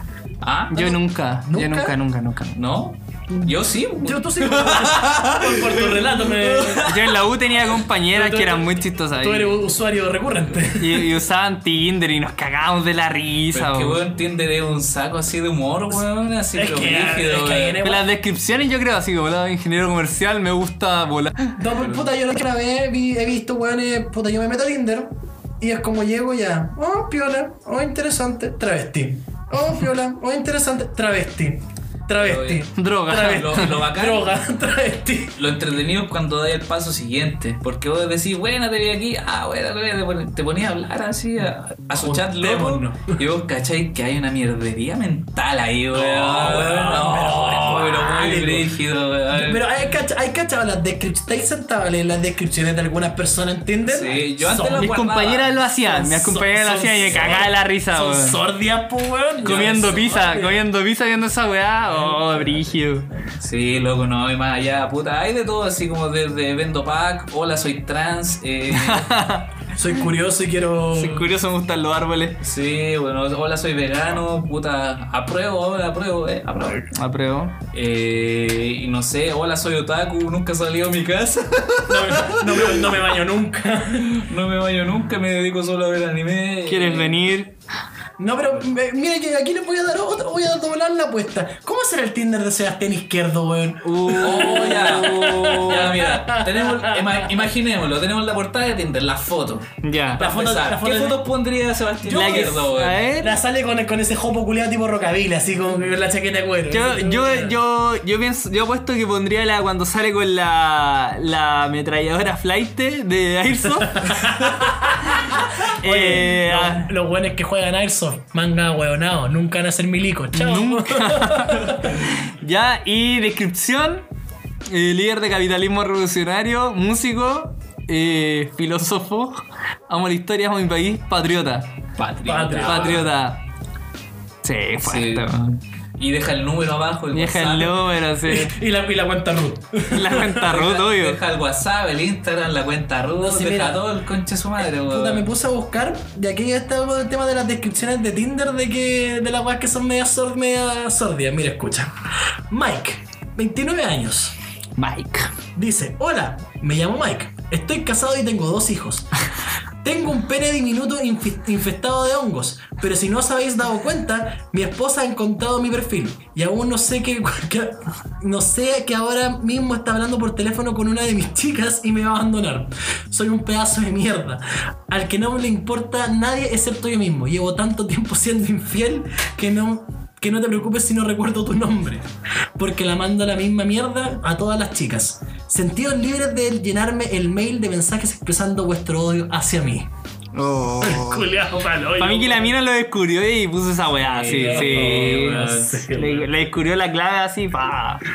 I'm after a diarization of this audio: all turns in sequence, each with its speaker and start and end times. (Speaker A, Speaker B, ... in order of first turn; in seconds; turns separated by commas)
Speaker A: 0.4-0.9, Speaker B: 0.7-2.6, Speaker C: 0.8-2.0, Speaker A: 2.5-6.9, Speaker C: 3.3-7.0, Speaker B: 6.8-9.6, Speaker C: 8.1-11.2, Speaker B: 10.8-14.0, Speaker A: 13.5-17.8, Speaker C: 16.5-18.1, Speaker B: 17.8-21.6, Speaker C: 21.6-35.4, Speaker A: 21.8-22.1, Speaker A: 32.2-32.6, Speaker B: 32.8-33.9, Speaker A: 33.2-34.3, Speaker A: 35.4-49.6, Speaker C: 41.9-43.1, Speaker C: 45.9-48.7, Speaker C: 49.3-54.9, Speaker A: 53.9-55.6, Speaker B: 54.8-58.4, Speaker C: 55.9-60.7, Speaker A: 56.9-57.5, Speaker A: 59.4-60.0, Speaker B: 59.4-63.1, Speaker C: 61.9-62.7, Speaker A: 63.3-69.1, Speaker B: 68.7-69.5, Speaker C: 69.7-71.3, Speaker B: 71.0-72.4, Speaker A: 72.4-76.9, Speaker B: 76.9-77.5, Speaker A: 77.7-82.9, Speaker C: 81.9-84.2, Speaker A: 83.9-87.2, Speaker B: 86.7-87.5, Speaker C: 88.2-97.4, Speaker B: 93.8-96.0, Speaker A: 94.2-103.1, Speaker B: 99.8-100.2, Speaker C: 100.2-101.3, Speaker B: 102.0-103.3, Speaker C: 103.2-107.5, Speaker B: 106.7-116.9, Speaker C: 113.8-122.0, Speaker B: 120.3-124.0, Speaker B: 124.7-131.7, Speaker A: 132.0-133.1, Speaker C: 132.2-133.1, Speaker B: 132.6-133.4, Speaker B: 134.4-135.4, Speaker A: 134.8-137.8, Speaker B: 137.1-138.5, Speaker C: 138.2-140.5, Speaker B: 139.9-141.2, Speaker A: 140.4-145.3, Speaker C: 143.2-143.9, Speaker C: 144.6-152.0, Speaker C: 152.5-154.3, Speaker B: 154.8-155.3, Speaker C: 155.6-159.1, Speaker C: 159.8-182.1, Speaker C: 182.6-189.9, Speaker B: 190.3-191.3, Speaker C: 190.8-192.6, Speaker B: 192.0-198.0, Speaker A: 194.0-195.9, Speaker C: 194.3-196.3